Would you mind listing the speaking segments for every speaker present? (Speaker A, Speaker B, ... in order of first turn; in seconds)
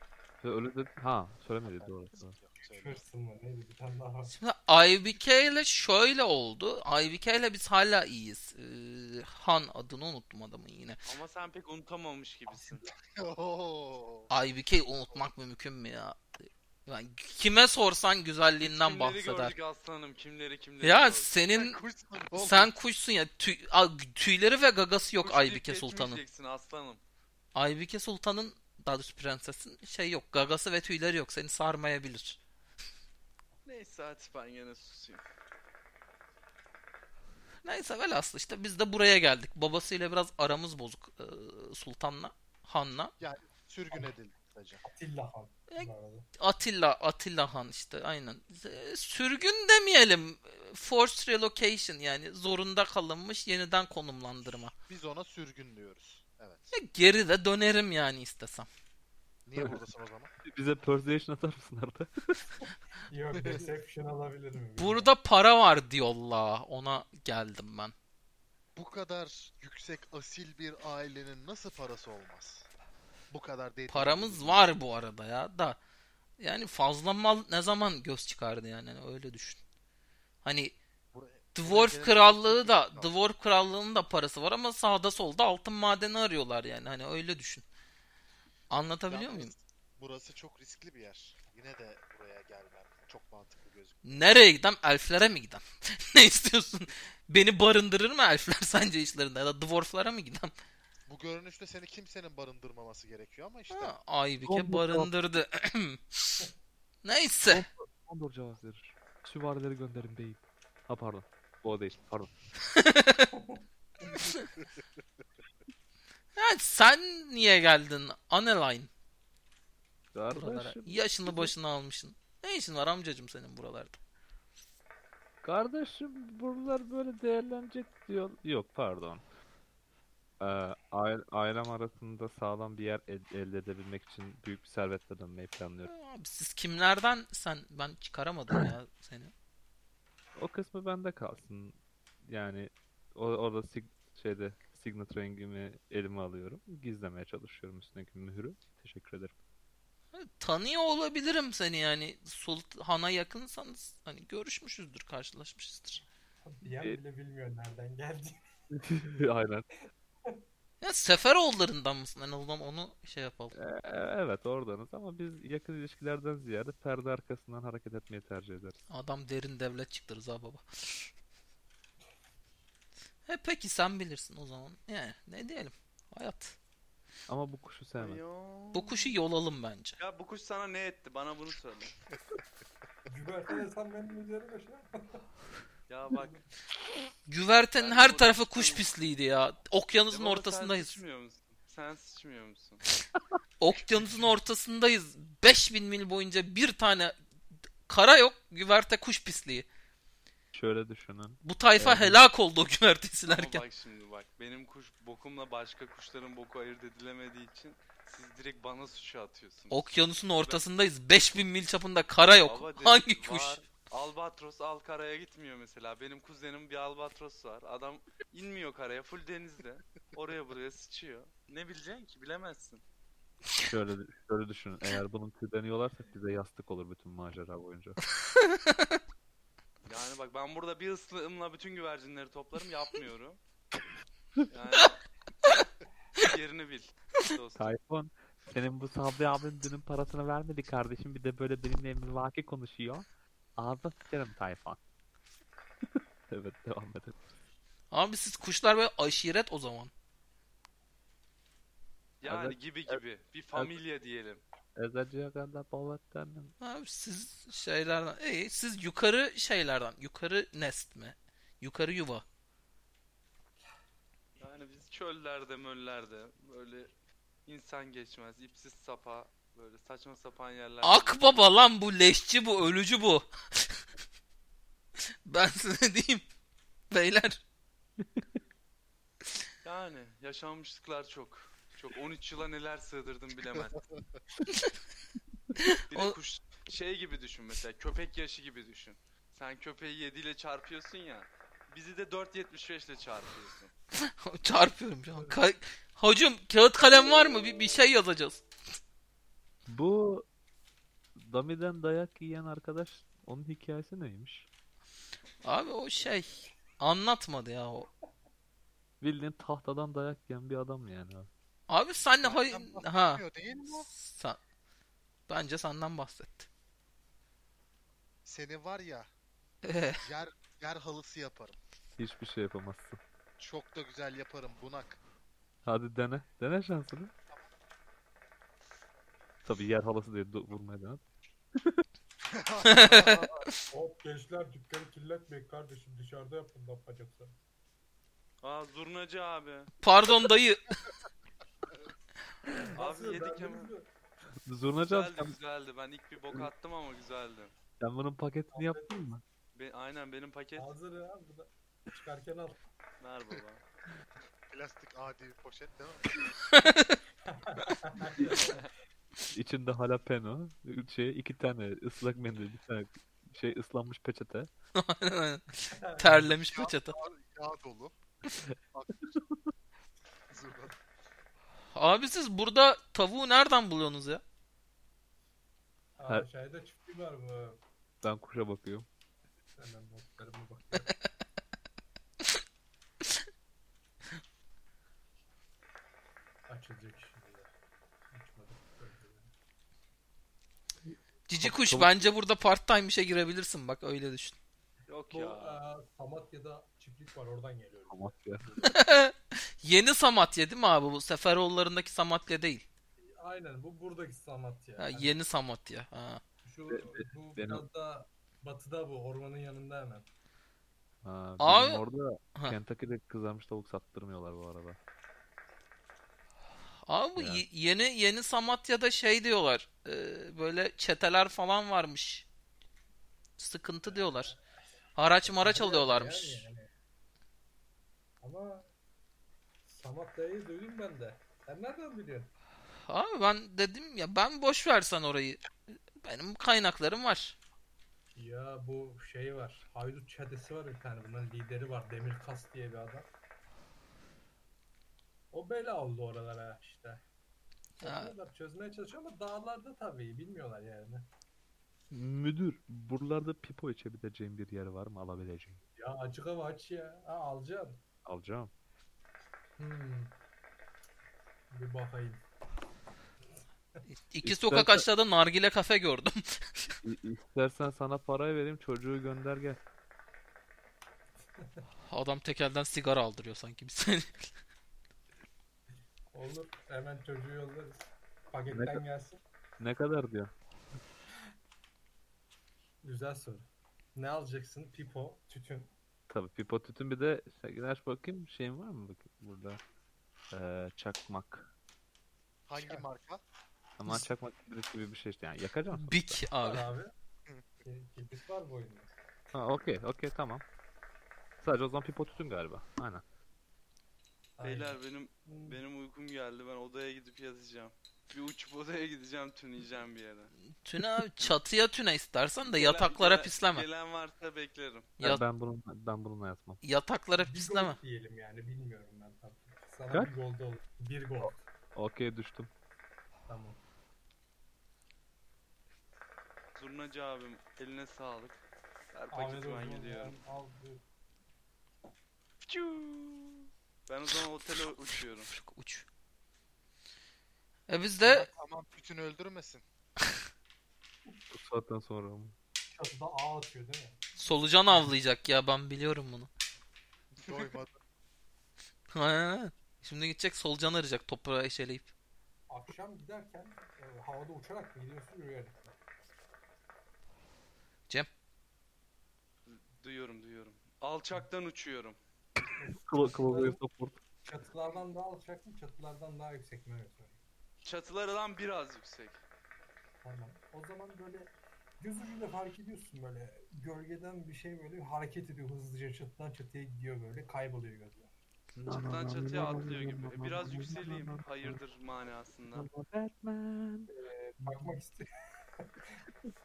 Speaker A: 0.4-2.4, 60.5-62.1, 104.5-105.1, 107.5-112.3, 120.1-121.5, 125.4-129.2, 130.4-135.9, 140.4-149.3, 158.7-159.7, 163.5-168.8, 177.3-178.2, 200.5-202.2, 223.7-228.0, 237.6-243.1, 243.6-244.8, 246.3-247.2, 252.2-253.0, 254.8-256.5, 299.7-300.3, 301.2-304.5, 309.0-311.3, 322.0-323.0, 325.6-327.1, 329.4-331.0, 344.5-345.4, 347.8-349.2, 359.3-364.5, 378.0-378.9, 390.9-392.1, 397.9-398.4, 406.7-407.6, 411.0-414.8, 417.2-417.4, 451.9-455.6, 458.1-458.5, 464.2-464.9, 466.8-469.6, 478.5-478.8, 479.6-480.3, 486.1-489.6, 490.3-491.5, 493.8-496.2, 499.3-500.4, 501.4-503.0, 515.0-516.6, 521.8-522.5, 541.3-542.4, 562.7-564.0, 578.5-581.6, 582.5-583.9, 584.4-584.7
Speaker B: 1.7-3.0, 13.2-14.4, 21.5-22.7, 43.2-44.8, 54.8-56.7, 59.5-60.3, 68.8-72.7, 73.3-74.7, 81.1-83.2, 89.1-94.3, 101.1-104.0, 312.2-313.9, 318.2-319.1, 320.0-321.6, 323.4-325.0, 332.3-333.3, 354.5-356.2, 366.5-368.0, 370.3-370.8, 492.5-493.2, 537.9-539.6, 547.2-547.7
Speaker C: 2.6-4.3, 44.8-46.3, 63.1-65.1, 113.3-113.6, 156.4-158.3, 183.1-185.2, 186.1-186.4, 295.1-295.4, 333.7-337.3, 342.7-343.9, 348.5-349.1, 350.6-352.6, 357.3-358.7, 365.7-366.4, 376.0-377.6, 379.6-380.9, 386.5-387.5, 388.1-389.3, 395.1-398.8, 403.0-405.2, 406.4-410.1, 423.8-424.4, 425.2-426.7, 428.2-428.7, 429.6-432.3, 438.1-443.1, 445.3-447.0, 447.8-451.1, 455.8-457.8, 459.6-460.1, 461.5-462.2, 471.4-471.6, 476.1-479.2, 482.8-485.7, 492.6-492.9, 496.4-496.9, 497.6-498.9, 504.4-505.6, 517.2-521.5, 523.3-523.6, 529.1-530.8, 542.7-544.0, 544.7-545.0, 552.5-555.8, 562.4-563.6, 564.3-567.2, 570.0-578.1, 580.5-581.1, 583.9-585.0
Speaker D: 4.3-11.1, 14.3-16.3, 16.9-19.6, 20.8-21.8, 22.4-26.2, 27.6-32.4, 37.6-43.1, 45.7-54.7, 56.7-58.7, 64.8-67.9, 73.9-75.8, 76.4-79.6, 80.4-80.8, 81.5-87.7, 88.7-89.5, 94.0-100.5, 103.7-106.5, 107.0-107.6, 112.8-113.3, 116.4-118.9, 120.3-124.0, 135.8-139.3, 150.2-156.1, 160.8-163.6, 168.9-171.1, 173.3-176.6, 178.7-180.0, 187.3-191.0, 193.6-197.2, 197.8-199.7, 201.4-203.7, 209.7-213.7, 228.3-229.0, 247.9-249.9, 256.6-262.2, 270.8-273.8, 275.3-276.3, 276.9-277.4, 285.6-286.1, 294.0-298.4, 305.4-307.9, 311.7-313.2, 313.7-314.4, 315.3-316.5, 319.6-320.0, 332.7-333.5, 339.8-340.8, 356.5-357.0, 364.8-366.9, 371.7-374.2, 380.7-381.1, 391.3-394.4, 398.6-402.7, 404.8-406.2, 411.4-411.8, 416.9-422.3, 423.4-424.3, 425.0-426.5, 432.9-435.5, 436.0-437.4, 447.8-448.1, 463.9-466.8, 471.9-474.1, 495.7-496.7, 510.6-513.7, 515.0-515.2, 516.6-517.8, 535.3-535.9, 537.7-538.3, 544.2-546.3, 548.9-551.9
Speaker E: 11.1-12.8, 18.6-21.3, 25.2-27.0, 33.6-35.2, 178.0-179.2, 180.0-182.0, 185.9-186.4, 187.8-188.9, 190.1-192.8, 203.3-209.9, 210.4-210.6, 212.4-222.8, 229.8-233.4, 234.5-235.0, 236.2-237.8, 252.2-254.4, 264.4-266.9, 267.5-271.4, 279.6-283.8, 285.9-293.7, 338.4-339.7, 342.8-343.7, 344.7-347.5, 349.6-350.7, 353.0-353.6, 394.9-395.6, 504.4-510.3, 512.5-514.9, 526.5-528.4, 528.9-530.1, 532.5-535.3, 559.5-562.0, 567.6-569.2, 578.7-582.7